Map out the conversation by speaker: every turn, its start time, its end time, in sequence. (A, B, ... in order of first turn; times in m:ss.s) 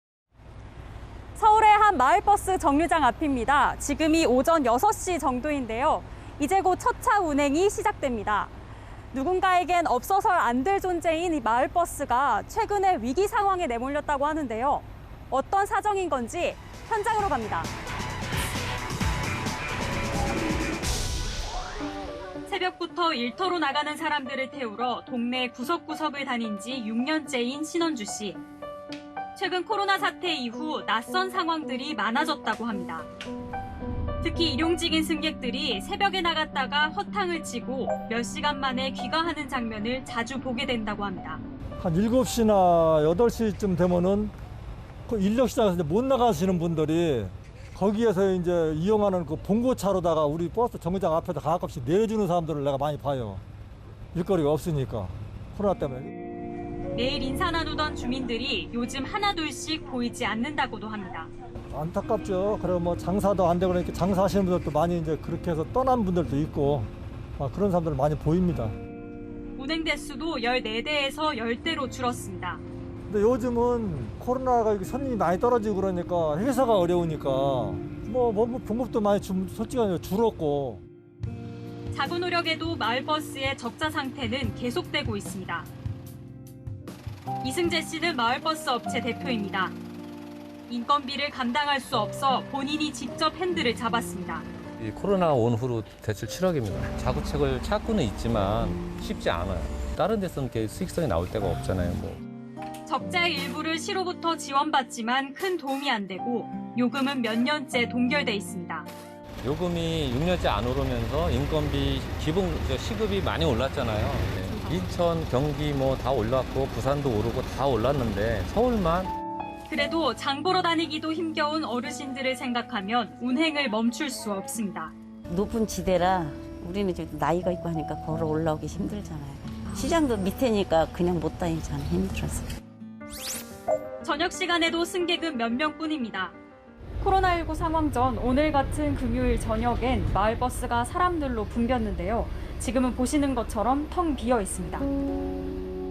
0:01.4-0:08.5 A
0:09.1-0:17.7 A
0:22.5-0:28.4 A
0:29.4-0:33.1 A
0:34.2-0:41.4 A
0:41.8-0:44.3 B
0:45.1-0:53.4 B
0:54.1-0:56.1 B
0:56.9-1:01.3 A
1:01.7-1:08.7 B
1:09.6-1:12.6 A
1:13.1-1:20.8 B
1:21.9-1:25.7 A
1:27.4-1:29.8 A
1:30.7-1:34.4 A
1:34.8-1:42.2 C
1:42.8-1:48.9 A
1:49.4-1:59.1 C
1:54.5-1:54.9 A
1:59.7-2:04.9 A
2:05.3-2:12.5 D
2:09.7-2:10.0 A
2:14.0-2:16.4 A
2:17.0-2:24.9 A